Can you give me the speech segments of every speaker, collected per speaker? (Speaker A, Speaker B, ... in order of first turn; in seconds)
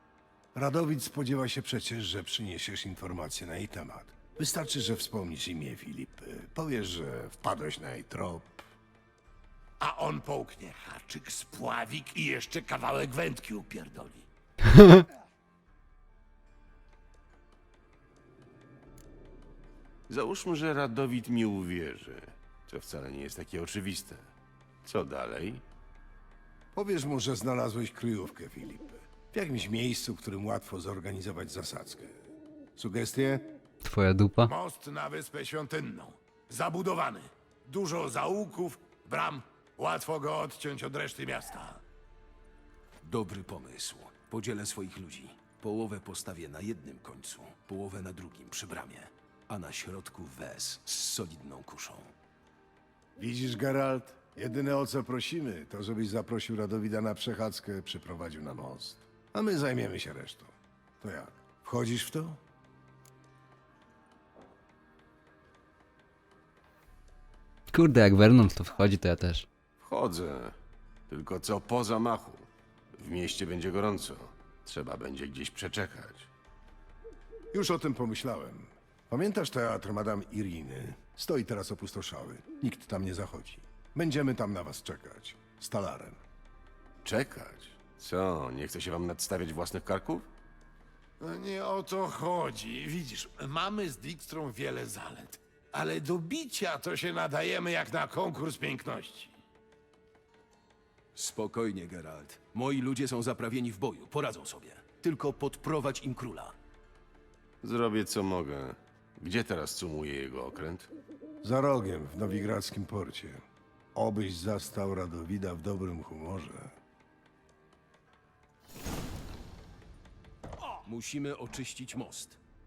Speaker A: 0.5-8.6, 26.7-32.2, 32.8-33.5, 53.2-62.4, 77.5-86.2, 111.4-113.4, 113.9-116.8
Speaker B: 9.8-14.3, 34.4-41.8, 91.2-99.3
Speaker C: 14.7-15.0, 33.8-34.5, 67.7-69.5
Speaker D: 20.1-24.3, 24.8-25.6, 69.8-70.5, 71.1-76.3, 87.0-90.3, 107.6-110.9
Speaker E: 43.0-52.1, 101.2-106.5, 120.8-122.4